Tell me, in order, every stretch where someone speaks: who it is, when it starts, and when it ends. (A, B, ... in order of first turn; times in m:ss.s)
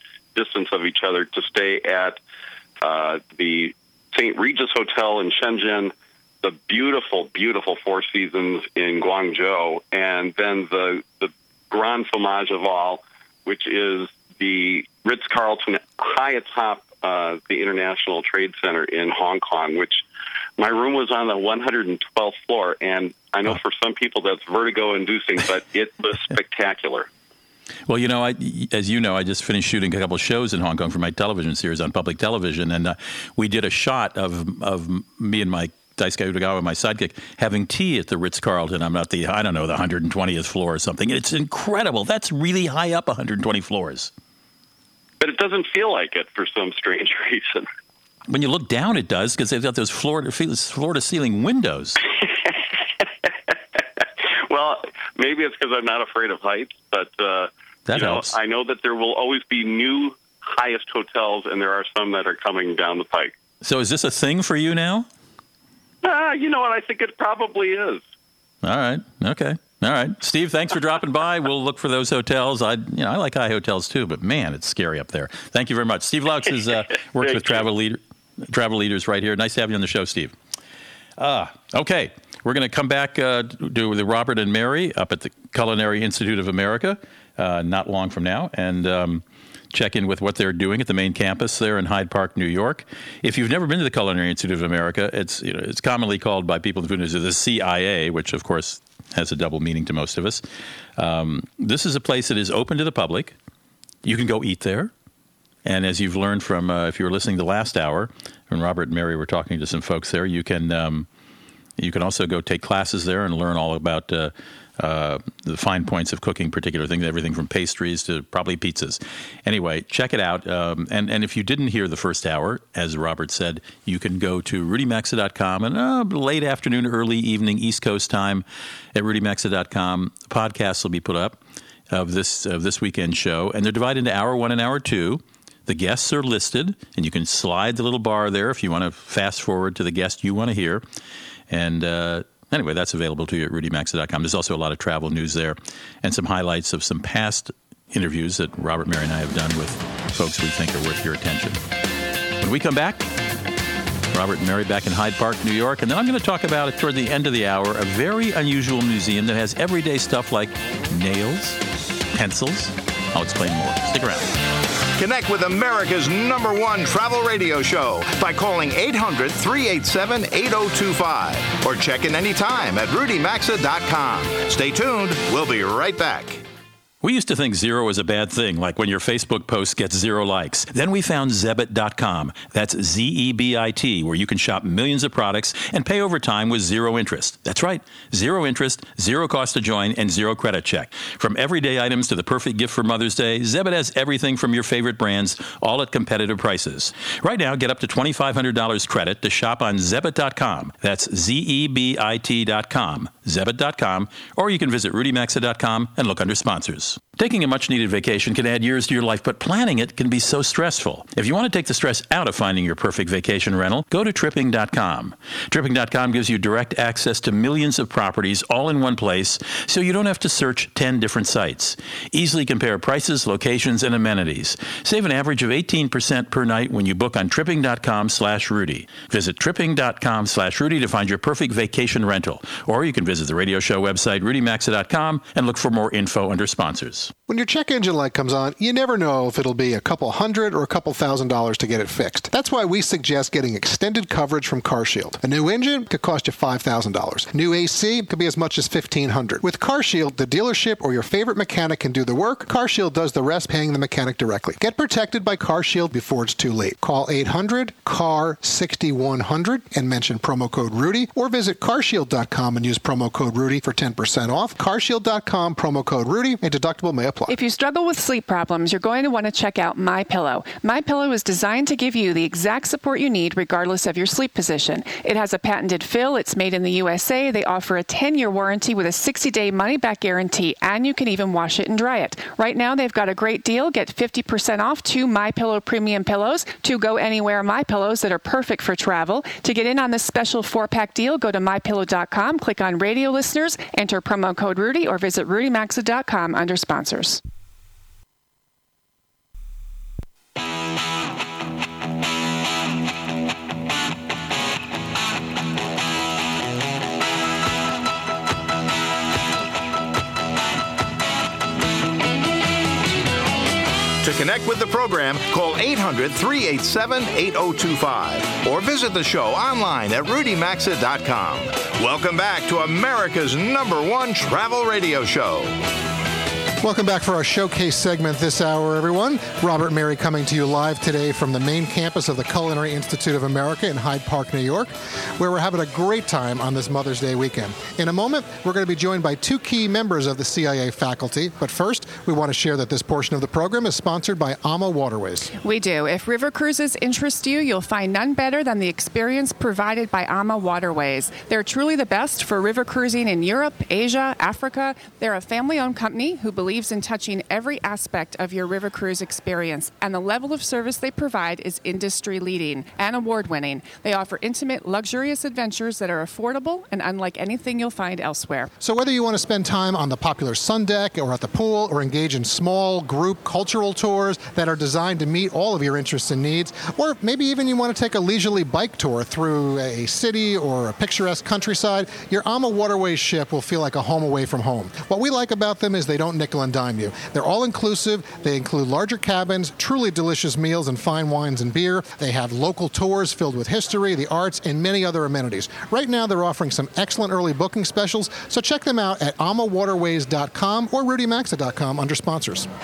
0:00.4-0:02.2 A
0:02.8-0:20.0 A
0:20.6-0:27.1 A
0:27.9-0:44.1 B
0:45.2-0:47.7 A
0:48.3-0:52.0 B
0:54.5-1:03.4 A
0:57.9-0:58.4 B
1:03.6-1:05.1 B
1:06.0-1:08.0 A
1:08.6-1:20.3 B
1:17.2-1:17.6 A
1:21.2-1:40.4 B
1:41.0-1:43.4 B
1:44.0-1:44.9 B
1:45.6-1:51.1 B
1:51.8-2:11.4 B
2:11.9-2:20.8 B
2:21.5-2:31.6 B
2:32.4-2:33.1 B
2:34.1-2:41.6 B
2:42.1-2:44.3 B
2:45.0-2:56.4 C
2:57.0-3:57.1 B
3:57.3-4:27.3 D
4:27.3-4:57.2 E
5:14.0-5:25.6 C
5:26.6-5:45.3 D
5:45.4-6:08.5 E
6:08.6-6:42.5 D